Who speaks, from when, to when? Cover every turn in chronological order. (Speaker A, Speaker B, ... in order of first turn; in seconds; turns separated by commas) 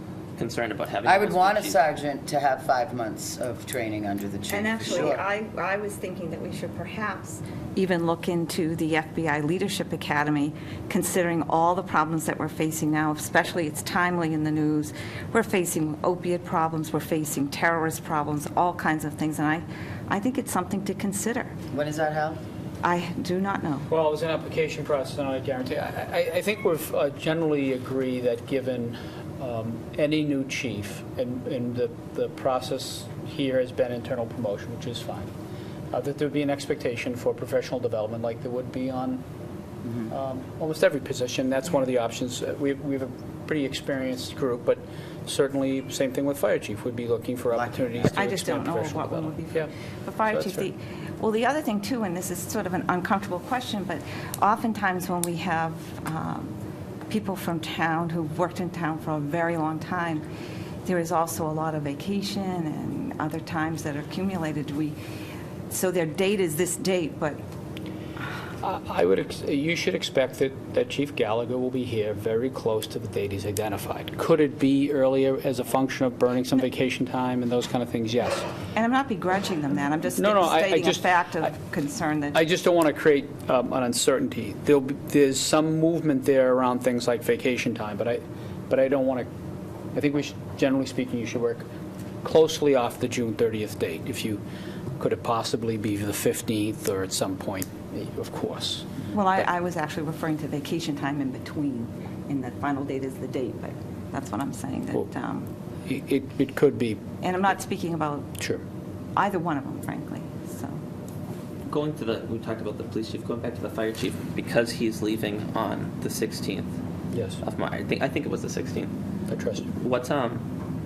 Speaker A: 0.4-1.8, Speaker B: 1.0-5.2, Speaker C: 4.5-21.5, Speaker B: 21.7-22.4, Speaker C: 22.8-23.9, Speaker D: 23.9-35.3, Speaker D: 35.9-39.2, Speaker B: 39.8-40.1, Speaker D: 40.1-49.7, Speaker B: 47.5-48.1, Speaker C: 48.1-56.5, Speaker D: 50.3-50.7, Speaker C: 57.1-60.2, Speaker C: 60.9-65.0, Speaker C: 65.7-67.4, Speaker D: 68.6-78.5, Speaker C: 78.7-82.4, Speaker D: 80.2-81.1, Speaker D: 82.3-89.3, Speaker D: 89.9-91.6, Speaker D: 92.2-94.4, Speaker D: 95.0-99.4, Speaker C: 99.1-105.5, Speaker D: 105.9-107.0, Speaker C: 107.2-108.3, Speaker C: 109.2-110.8, Speaker A: 111.7-116.7, Speaker D: 117.1-117.4, Speaker A: 117.4-118.9, Speaker D: 119.3-119.7, Speaker A: 119.8-120.4